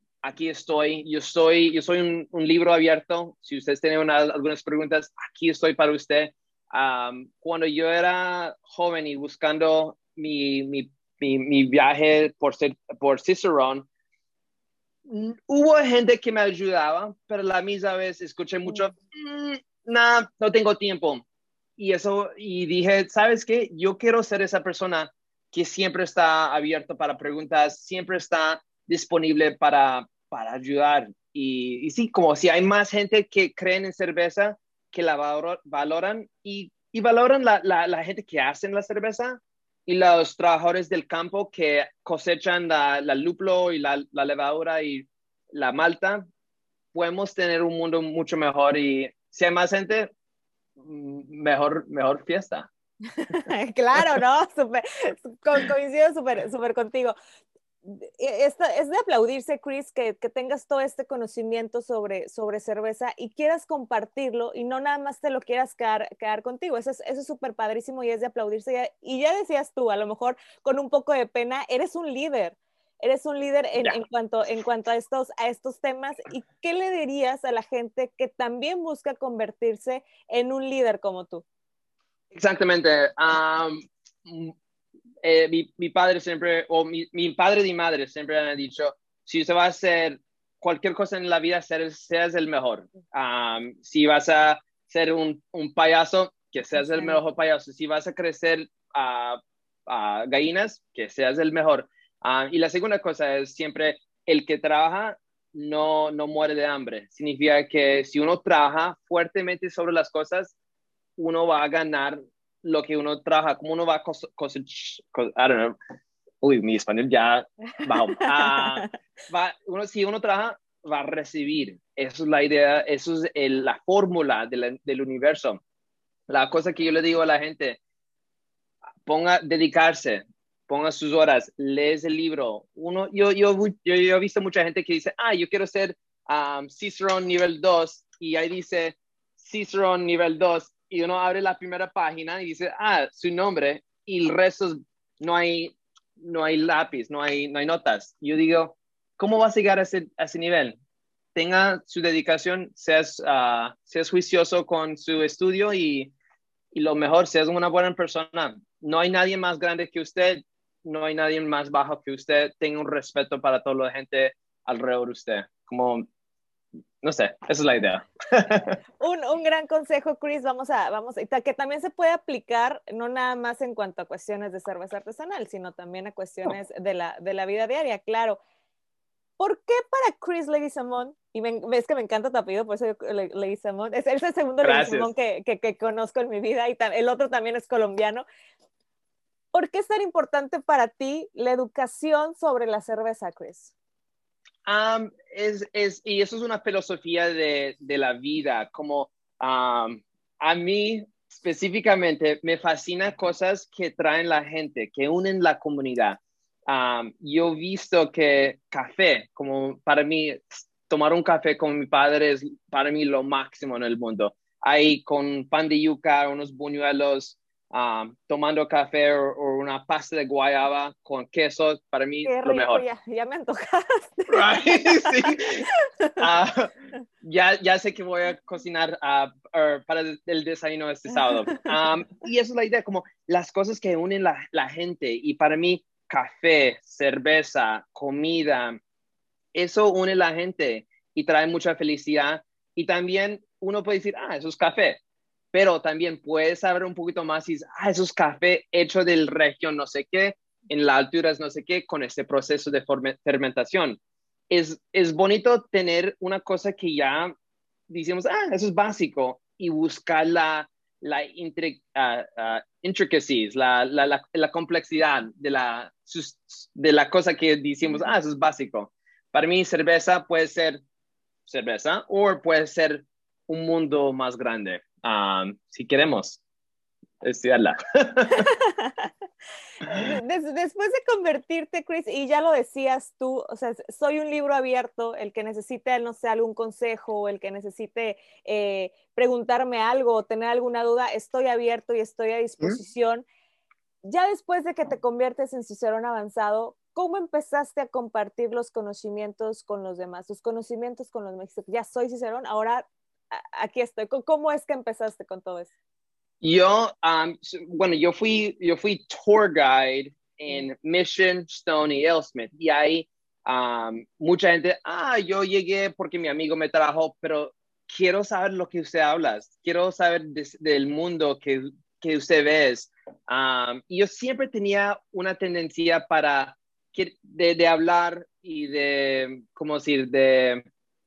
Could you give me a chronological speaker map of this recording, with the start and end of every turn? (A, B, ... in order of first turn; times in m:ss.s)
0:00.2-0:13.9 A
0:15.0-0:21.2 A
0:21.8-0:46.2 A
0:46.9-0:50.1 A
0:50.8-0:52.7 A
0:53.2-0:57.1 B
0:57.8-1:21.4 B
1:22.3-1:24.5 A
1:25.2-1:50.5 A
1:51.2-1:55.8 A
1:56.4-2:05.6 A
1:58.2-1:58.8 B
2:06.3-2:07.8 A
2:09.0-2:30.8 A
2:31.3-2:36.1 A
2:36.7-2:46.0 A
2:47.0-2:48.8 A
2:49.0-2:58.4 B
2:59.4-3:08.2 B
3:04.6-3:05.1 A
3:09.5-3:13.7 B
3:14.6-3:42.8 A
3:42.2-3:46.2 B
3:44.3-3:45.6 A
3:46.2-3:58.8 A
3:59.5-4:05.0 A
4:05.5-4:14.0 A
4:14.5-4:17.3 A
4:17.9-4:30.8 A
4:31.5-4:36.4 A
4:37.2-4:38.5 A
4:38.3-4:39.1 B
4:39.9-4:53.2 B
4:54.0-5:05.7 B
5:06.4-5:30.6 A